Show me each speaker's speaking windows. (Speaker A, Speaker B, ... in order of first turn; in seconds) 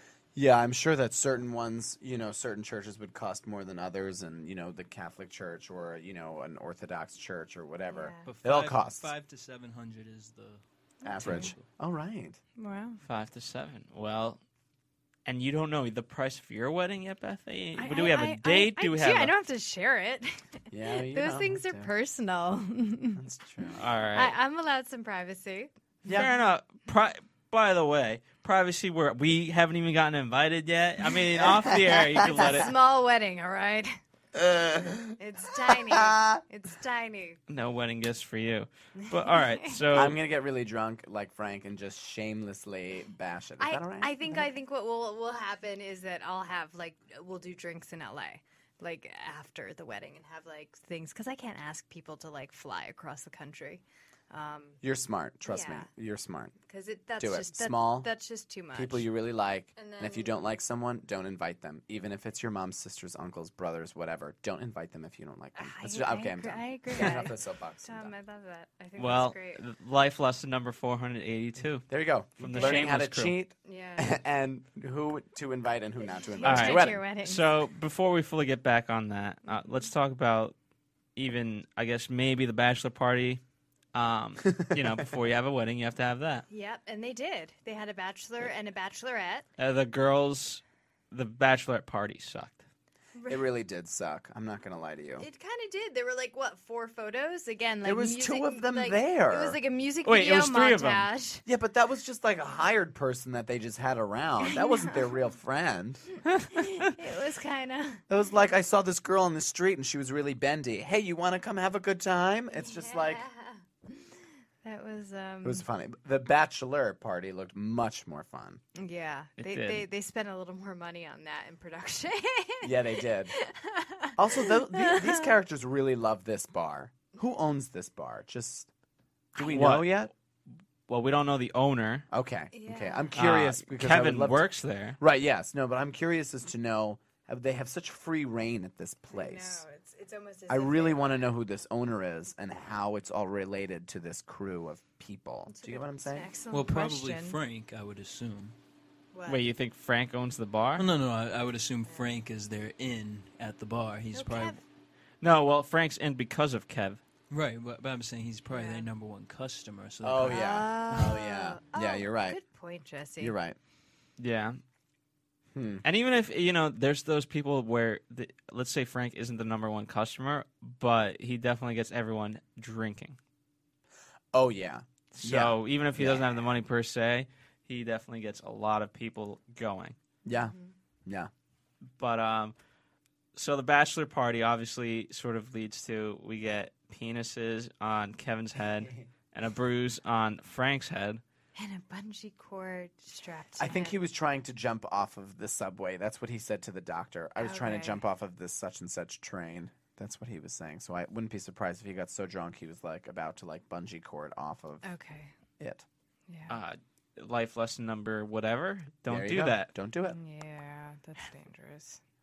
Speaker A: 0.3-9.1, 11.1-12.4, 20.7-21.9, 23.2-23.8, 26.0-26.3, 31.4-32.7, 34.4-36.4, 39.9-44.5, 54.8-56.5, 57.2-58.1, 58.7-68.1, 71.9-77.0, 93.3-95.3, 97.8-99.6, 101.5-106.0, 108.1-113.2, 115.4-118.6, 122.6-123.3, 124.2-128.7, 129.4-130.1, 132.1-134.4, 135.0-139.6, 140.5-146.3, 160.0-162.4, 163.2-163.6, 165.5-165.8, 174.3-176.4, 180.3-180.5, 193.6-204.9, 205.6-205.8, 209.1-210.2
Speaker B: 7.9-8.3, 11.0-11.5, 12.6-13.0, 17.8-23.2, 24.1-25.7, 32.3-33.9, 35.2-37.4, 39.0-39.8, 43.6-54.8, 55.5-55.9, 56.7-59.1, 59.8-60.3, 65.6-69.6, 72.6-72.9, 73.6-74.1, 76.0-77.4, 79.5-79.8, 86.5-89.5, 93.2-93.5, 95.2-101.4, 104.4-105.0, 106.5-108.0, 112.6-114.0, 114.6-115.7, 118.8-125.3, 132.5-133.1, 139.1-141.2, 145.5-147.4, 149.1-149.4, 151.9-152.2, 154.1-154.6, 158.5-158.9, 160.2-163.3, 180.3-180.7, 191.6-194.0, 197.4-198.0, 204.8-205.3, 206.3-206.6, 210.1-212.0
Speaker C: 8.2-11.7, 146.5-148.6, 150.8-154.6, 157.3-160.6
Speaker D: 13.0-14.4, 15.3-19.3, 23.8-24.4, 26.1-32.7, 37.5-40.2, 69.0-73.3, 76.4-80.5, 81.2-83.4, 83.9-86.5, 89.6-92.6, 100.0-101.1, 119.4-119.8, 129.4-130.1, 130.9-132.1, 133.2-135.0, 149.3-150.9, 155.2-157.0, 164.2-164.6, 165.8-173.2, 175.1-180.0, 182.0-182.6, 183.3-191.2, 206.5-209.7